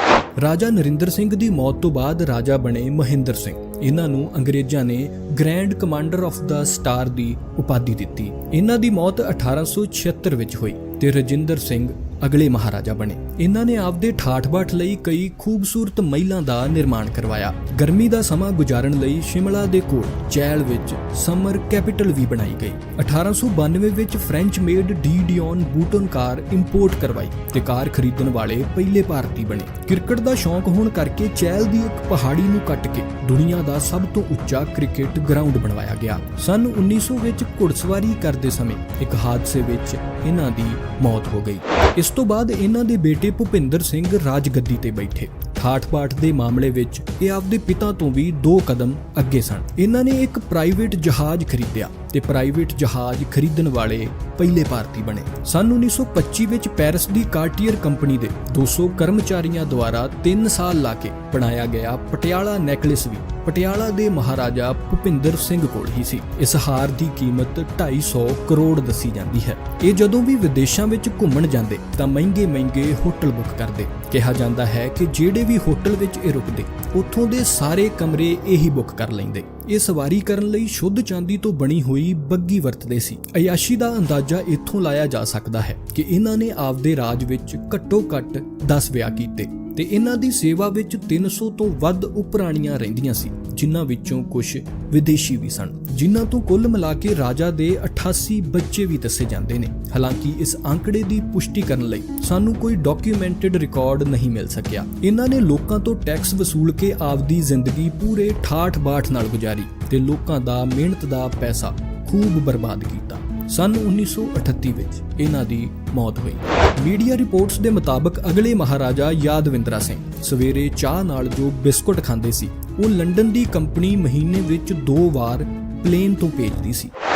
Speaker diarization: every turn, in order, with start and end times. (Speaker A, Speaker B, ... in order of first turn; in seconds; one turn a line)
Speaker A: 0.4-126.9